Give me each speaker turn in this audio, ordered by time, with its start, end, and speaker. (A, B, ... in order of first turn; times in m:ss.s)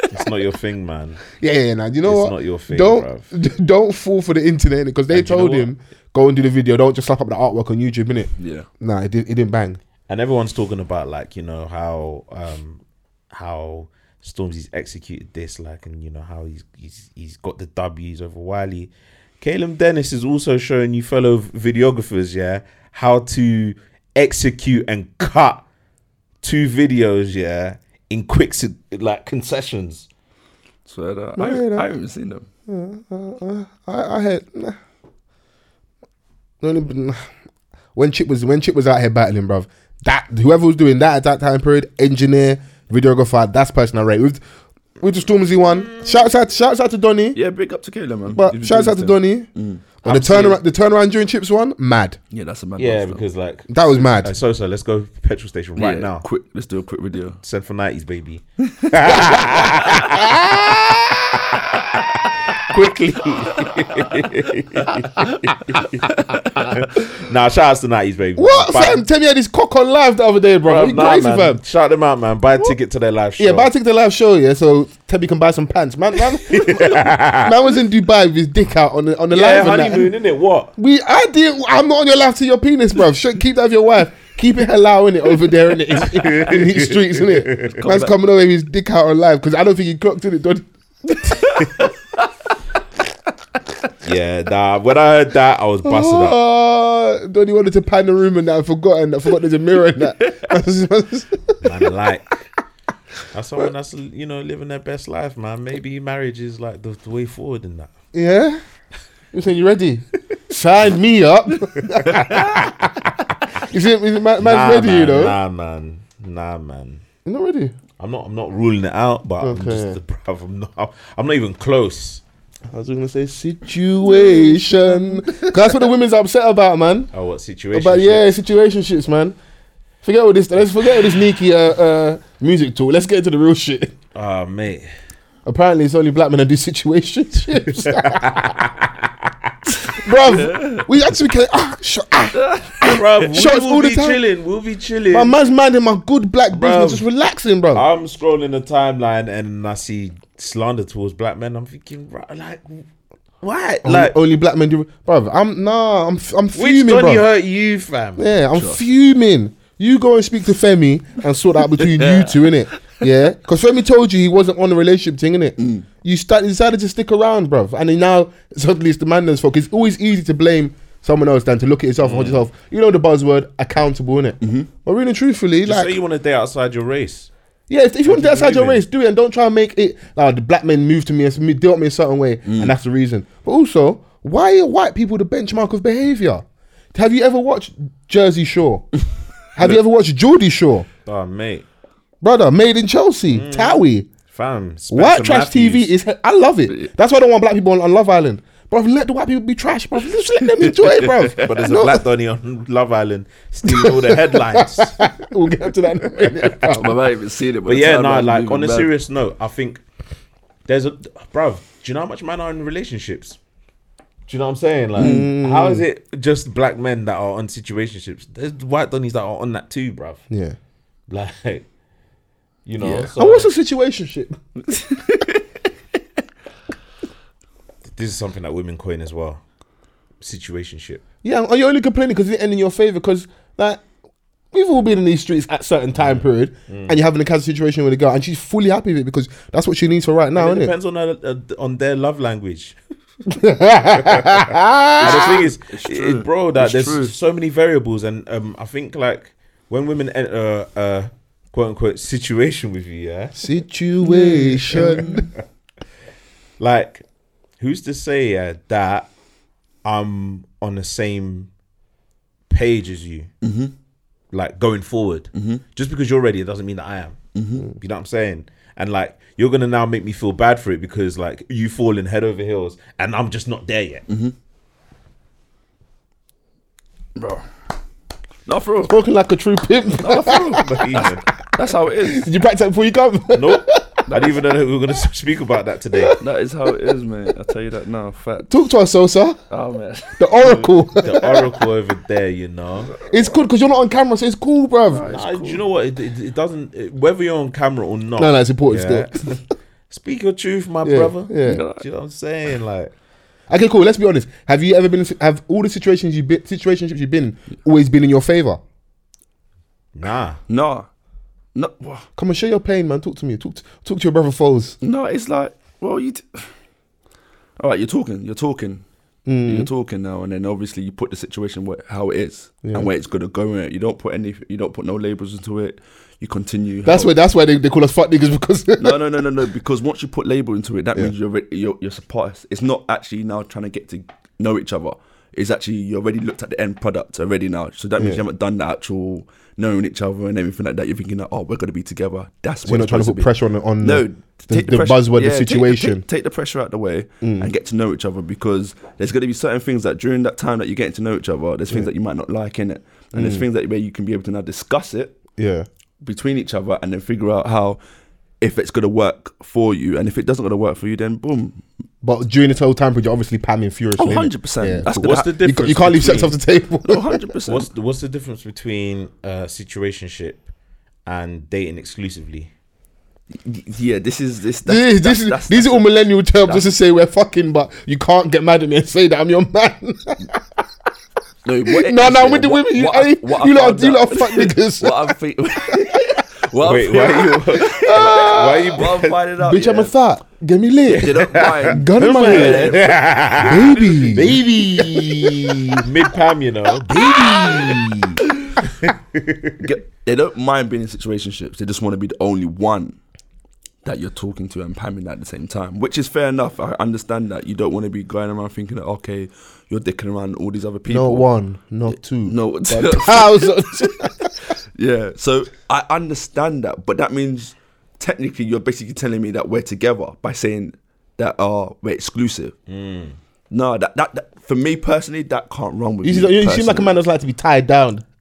0:00.1-0:01.2 A
0:01.4-0:09.8 B
0:02.0-0:03.3 A
0:05.1-0:05.7 A
0:08.4-0:08.7 C
0:10.1-0:12.8 A
0:13.3-0:25.6 A
0:26.4-0:30.1 A
0:30.8-0:32.4 C
0:31.4-0:31.9 B
0:32.7-0:34.8 B
0:36.6-0:37.3 B
0:37.9-0:44.4 B
0:45.0-0:47.4 B
0:47.3-0:50.6 C
0:48.3-0:49.5 B
0:50.0-0:52.2 B
0:52.3-0:53.2 C
0:52.8-0:56.2 A
0:53.7-0:54.3 B
0:55.8-0:57.4 C
0:57.4-1:00.8 A
0:58.7-1:00.0 C
1:00.2-1:00.8 B
1:02.5-1:09.0 A
1:05.1-1:06.7 C
1:08.4-1:11.6 B
1:10.6-1:13.7 A
1:13.4-1:20.1 B
1:16.4-1:17.5 A
1:19.3-1:20.7 A
1:20.8-1:31.8 B
1:26.2-1:27.8 A
1:27.8-1:28.1 C
1:31.6-1:31.9 C
1:34.0-1:36.4 A
1:35.8-1:41.6 B
1:41.6-1:42.5 A
1:43.3-1:47.9 A
1:48.1-1:48.6 B
1:49.3-1:52.9 B
1:52.3-1:52.8 A
1:53.5-1:55.4 B
1:54.4-1:57.0 A
1:57.2-1:57.7 B
1:58.0-2:02.2 A
1:59.4-2:00.0 B
2:02.7-2:07.1 B
2:04.2-2:04.7 C
2:07.1-2:08.4 A
2:07.7-2:09.4 B
2:10.0-2:13.9 B
2:14.1-2:14.9 A
2:15.4-2:18.4 B
2:17.6-2:19.1 A
2:19.9-2:24.2 B
2:20.2-2:20.9 C
2:22.3-2:23.3 C
2:22.8-2:25.4 A
2:25.1-2:27.8 B
2:26.5-2:27.0 A
2:27.7-2:32.8 A
2:33.4-2:34.1 A
2:33.8-2:37.2 B
2:36.5-2:38.3 A
2:38.2-2:56.0 B
2:38.5-2:38.8 C
2:42.0-2:42.3 C
2:45.6-2:45.8 C
2:52.0-2:52.4 A
2:54.4-2:54.7 C
2:55.6-2:57.3 A
2:57.7-3:08.9 B
2:58.0-2:58.8 A
3:02.4-3:02.7 C
3:09.5-3:10.9 B
3:11.0-3:11.6 A
3:12.2-3:14.1 B
3:13.3-3:15.9 A
3:14.9-3:22.0 B
3:20.6-3:21.5 C
3:21.4-3:25.0 A
3:23.6-3:27.0 B
3:26.7-3:28.9 C
3:27.6-3:29.8 A
3:30.7-3:33.4 A
3:34.3-3:40.2 A
3:35.0-3:35.2 C
3:35.0-3:35.8 B
3:40.3-3:40.6 B
3:41.1-3:41.6 A
3:42.6-3:43.5 A
3:42.8-3:43.1 C
3:42.9-3:44.4 B
3:44.7-3:45.4 C
3:48.0-3:49.4 A
3:50.2-3:51.0 A
3:51.2-3:53.8 B
3:54.5-4:00.7 B
3:56.0-3:57.0 A
4:00.4-4:02.8 A
4:03.3-4:05.4 B
4:04.0-4:04.4 A
4:05.0-4:07.1 C
4:05.0-4:13.3 A
4:13.4-4:15.3 B
4:14.0-4:15.2 C
4:16.6-4:17.0 A
4:17.6-4:19.1 A
4:19.8-4:21.5 A
4:22.5-4:23.3 A
4:23.4-4:23.7 C
4:24.3-4:27.2 A
4:25.3-4:25.6 C
4:27.3-4:27.7 C
4:27.7-4:34.0 A
4:34.1-4:34.3 C
4:37.2-4:37.4 C
4:38.4-4:39.0 C
4:38.9-4:41.0 B
4:39.9-4:42.3 C
4:40.3-4:41.2 A
4:42.0-4:44.0 B
4:43.3-4:46.2 A
4:44.1-4:44.3 C
4:46.2-4:48.5 C
4:48.5-4:49.4 B
4:49.5-4:50.6 C
4:50.2-4:51.5 B
4:50.4-4:52.9 A
4:52.9-4:53.4 C
4:53.1-4:55.1 B
4:54.9-4:55.6 C
4:55.1-5:02.9 A
4:58.2-4:59.4 B
5:00.8-5:01.6 B
5:01.4-5:01.8 C
5:03.5-5:08.6 B
5:09.9-5:10.4 A
5:10.5-5:10.9 C
5:11.5-5:12.1 C
5:12.2-5:14.8 B
5:14.8-5:16.5 C
5:17.6-5:18.8 C
5:19.2-5:19.7 B
5:19.4-5:27.1 C
5:22.6-5:22.9 B
5:26.8-5:29.1 B
5:28.8-5:43.3 C
5:38.0-5:38.2 B
5:42.6-5:46.0 B
5:43.8-5:55.2 C
5:47.2-5:47.5 B
5:53.1-5:53.4 B
5:55.4-5:55.7 B
5:56.0-5:57.8 C
5:58.4-6:01.6 C
6:02.0-6:07.2 B
6:04.0-6:05.3 C
6:04.9-6:06.4 A
6:06.8-6:07.7 C
6:07.4-6:10.4 A
6:11.0-6:12.5 A
6:13.3-6:15.9 C
6:14.6-6:20.4 B
6:21.4-6:29.9 C
6:21.6-6:25.2 B
6:25.7-6:26.2 B
6:26.6-6:29.2 A
6:27.7-6:28.8 B
6:29.4-6:32.8 B
6:30.9-6:39.6 A
6:31.0-6:34.3 C
6:33.4-6:35.5 B
6:36.9-6:37.8 B
6:39.6-6:43.0 C
6:43.8-6:51.3 C
6:50.9-6:54.4 B
6:51.9-6:54.1 C
6:54.8-7:02.6 C
7:02.7-7:03.2 A
7:03.5-7:07.0 C
7:06.0-7:08.0 B